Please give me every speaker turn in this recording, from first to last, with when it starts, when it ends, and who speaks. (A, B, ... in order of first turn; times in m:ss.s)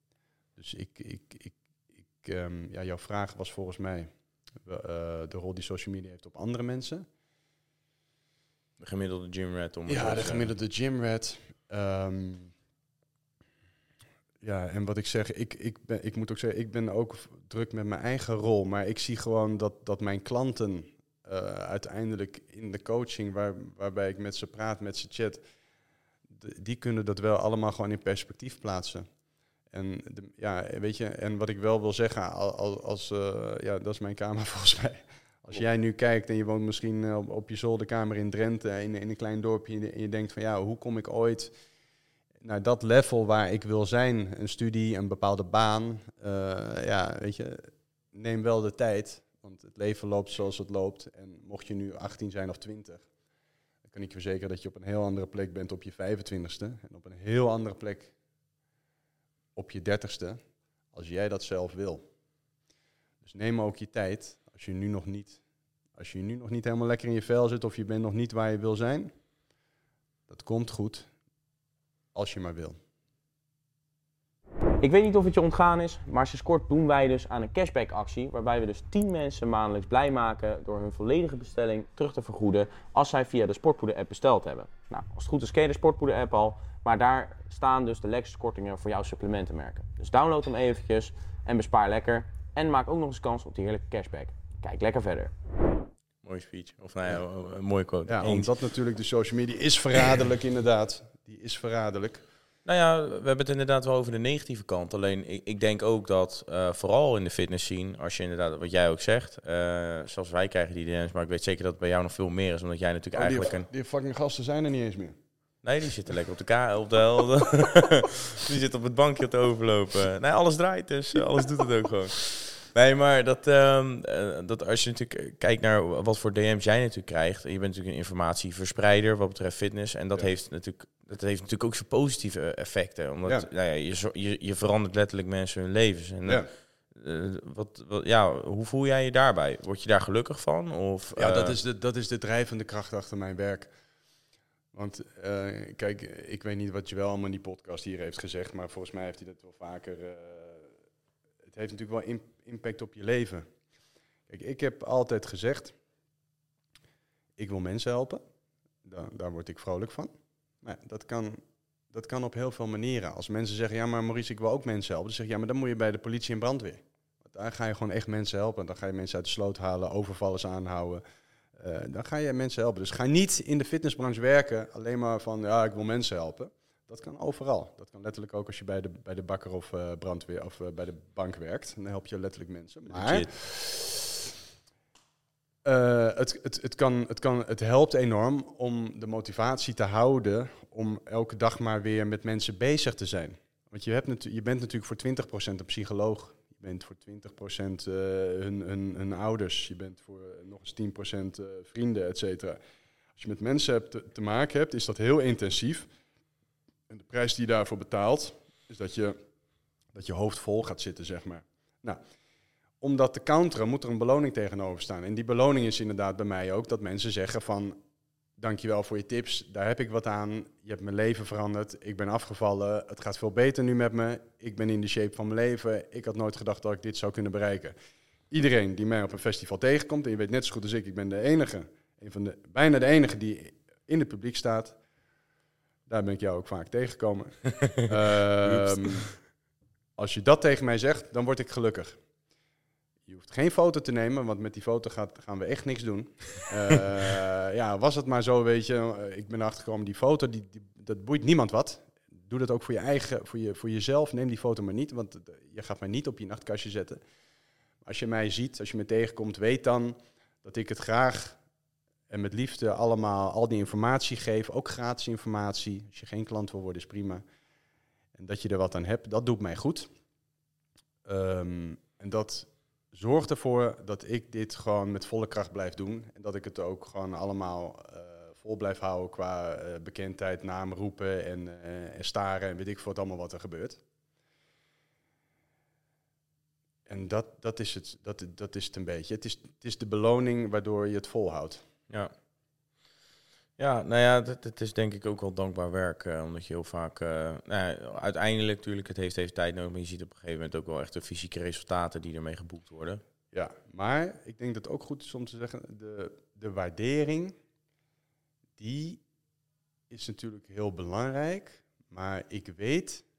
0:00.6-0:01.6 A
0:02.2-0:04.1 A
0:04.6-0:07.1 A
0:08.8-0:10.5 B
0:09.9-0:12.5 A
0:14.4-0:25.4 A
0:26.3-0:29.1 A
0:29.7-0:41.5 A
0:42.4-0:53.1 A
0:53.9-0:58.1 A
0:59.6-1:00.4 A
1:00.9-1:02.0 A
1:03.2-1:05.4 A
1:06.0-1:09.1 A
1:10.3-1:11.1 A
1:12.1-1:12.8 A
1:14.8-1:35.3 C
1:36.2-1:38.5 B
1:38.1-1:42.2 A
1:42.6-1:53.7 B
1:53.2-1:55.2 A
1:55.6-2:21.6 B
2:21.2-2:23.7 A
2:24.7-2:30.7 A
2:31.5-2:33.5 A
2:34.3-2:35.8 A
2:37.4-2:38.2 A
2:38.8-2:51.0 A
2:51.6-3:04.1 A
3:02.9-3:03.3 B
3:05.6-3:22.6 A
3:23.2-3:25.9 A
3:26.9-3:29.2 A
3:29.9-3:32.0 A
3:32.8-3:37.8 A
3:38.4-3:47.8 A
3:48.3-3:54.8 A
3:55.9-3:59.1 A
3:58.6-3:59.0 B
4:00.0-4:02.0 A
4:03.1-4:17.0 A
4:17.8-4:21.4 A
4:22.1-4:27.2 A
4:28.2-4:29.9 A
4:31.0-4:43.8 A
4:46.9-4:51.6 A
4:53.6-5:03.0 B
5:03.3-5:07.4 A
5:08.6-5:09.0 A
5:09.9-5:13.1 A